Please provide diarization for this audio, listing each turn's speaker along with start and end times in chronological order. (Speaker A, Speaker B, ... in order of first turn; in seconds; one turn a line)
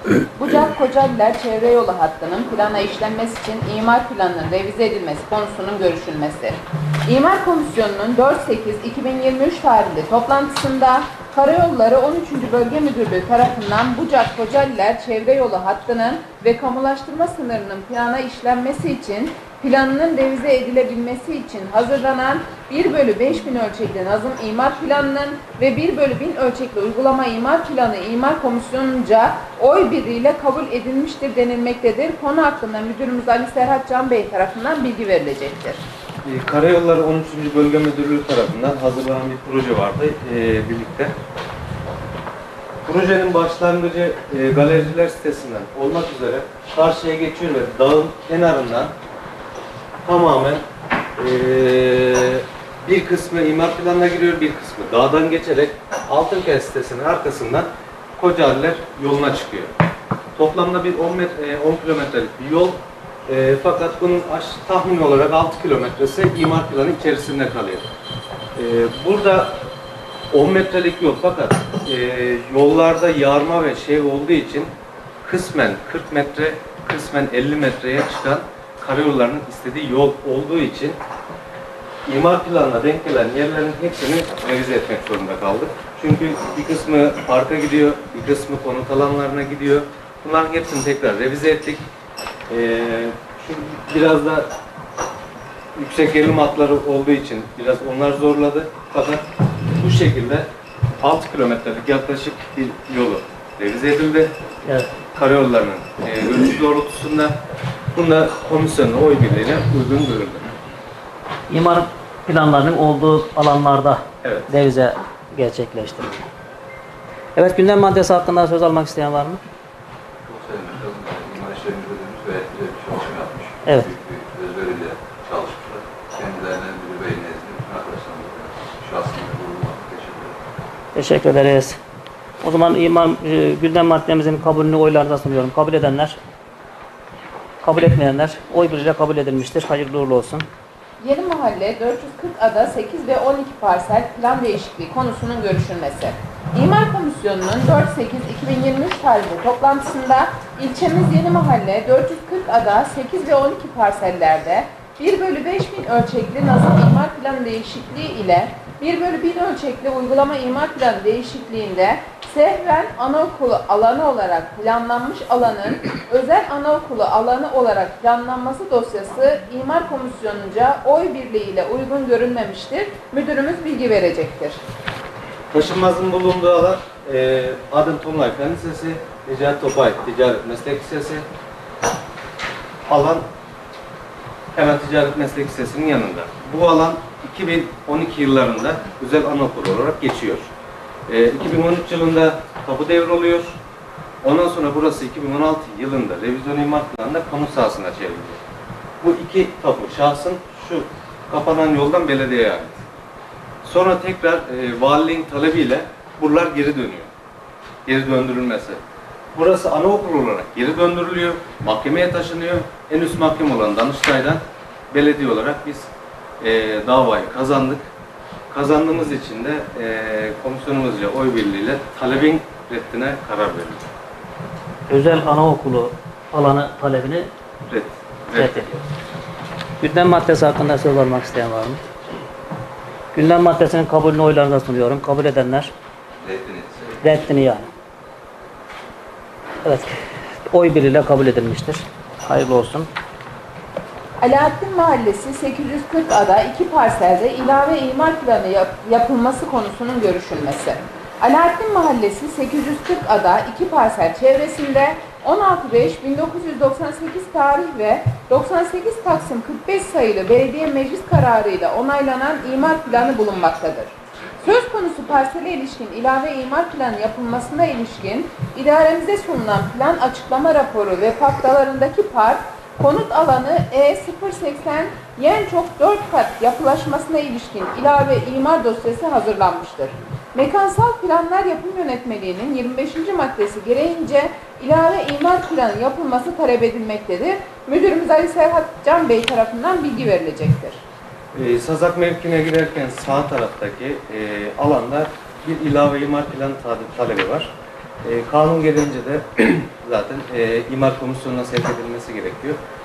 Speaker A: 0.3-35.8
Speaker B: 36.2-41.1
Speaker B: 42.9-48.9
Speaker B: 50.0-50.6
Speaker B: 51.2-59.7
Speaker B: 60.4-67.9
Speaker B: 68.5-69.7
Speaker B: 70.3-74.7
Speaker B: 75.2-81.0
Speaker B: 82.0-91.8
Speaker B: 92.5-94.5
Speaker B: 95.8-99.2
Speaker B: 99.8-100.5
Speaker B: 101.0-104.3
Speaker B: 105.1-107.3
Speaker B: 107.9-110.5
Speaker C: 111.5-116.2
Speaker B: 114.2-114.5
Speaker C: 117.3-119.4
Speaker D: 120.2-130.3
Speaker C: 130.9-131.8
Speaker C: 132.4-136.2
Speaker C: 137.6-140.4
Speaker A: 141.0-174.6
Speaker B: 175.5-181.2
Speaker B: 182.8-183.2
Speaker B: 184.5-190.5
Speaker B: 191.1-193.6
Speaker B: 194.2-198.4
Speaker B: 199.0-202.8
Speaker B: 203.6-207.1
Speaker B: 207.8-208.8
Speaker B: 209.3-215.9
Speaker B: 216.4-217.9
Speaker B: 218.5-223.8
Speaker C: 224.9-227.3
Speaker B: 227.7-228.8
Speaker C: 228.3-228.7
Speaker C: 229.8-231.8
Speaker C: 233.1-235.7
Speaker D: 236.2-237.0
Speaker C: 237.0-237.7
Speaker C: 239.6-239.9
Speaker C: 240.5-242.9
Speaker A: 244.2-290.8
Speaker B: 291.3-302.6